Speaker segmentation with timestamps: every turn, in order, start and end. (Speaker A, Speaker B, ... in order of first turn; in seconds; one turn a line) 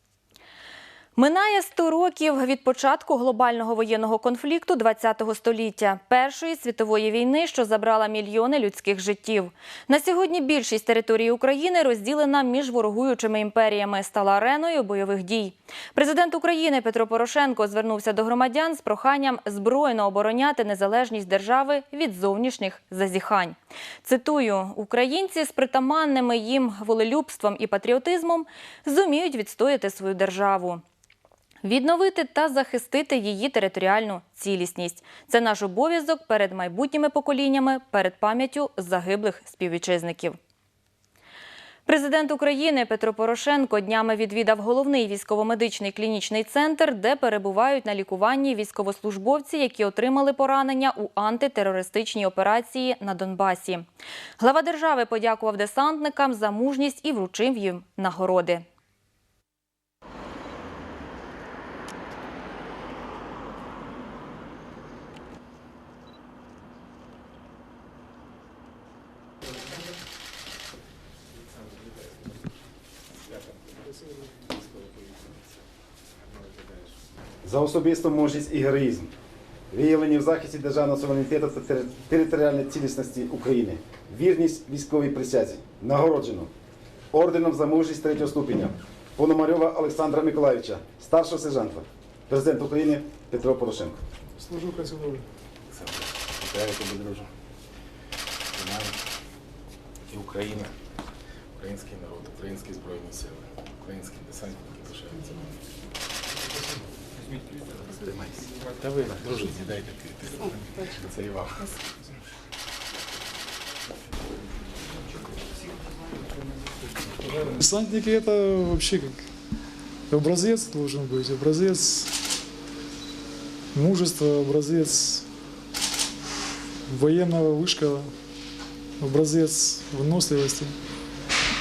Speaker A: 1.2-30.8
Speaker A: 31.6-40.4
Speaker A: 41.9-53.9
Speaker A: 54.4-58.6
Speaker B: 73.6-75.3
Speaker C: 77.4-79.1
Speaker C: 79.7-86.5
Speaker C: 87.1-94.0
Speaker D: 94.4-95.3
Speaker B: 95.7-97.3
Speaker B: 98.5-99.0
Speaker B: 100.1-100.7
Speaker B: 101.6-105.5
Speaker B: 107.9-111.8
Speaker D: 117.2-119.3
Speaker D: 120.1-122.1
Speaker D: 123.7-125.2
Speaker D: 126.9-128.1
Speaker D: 129.0-130.8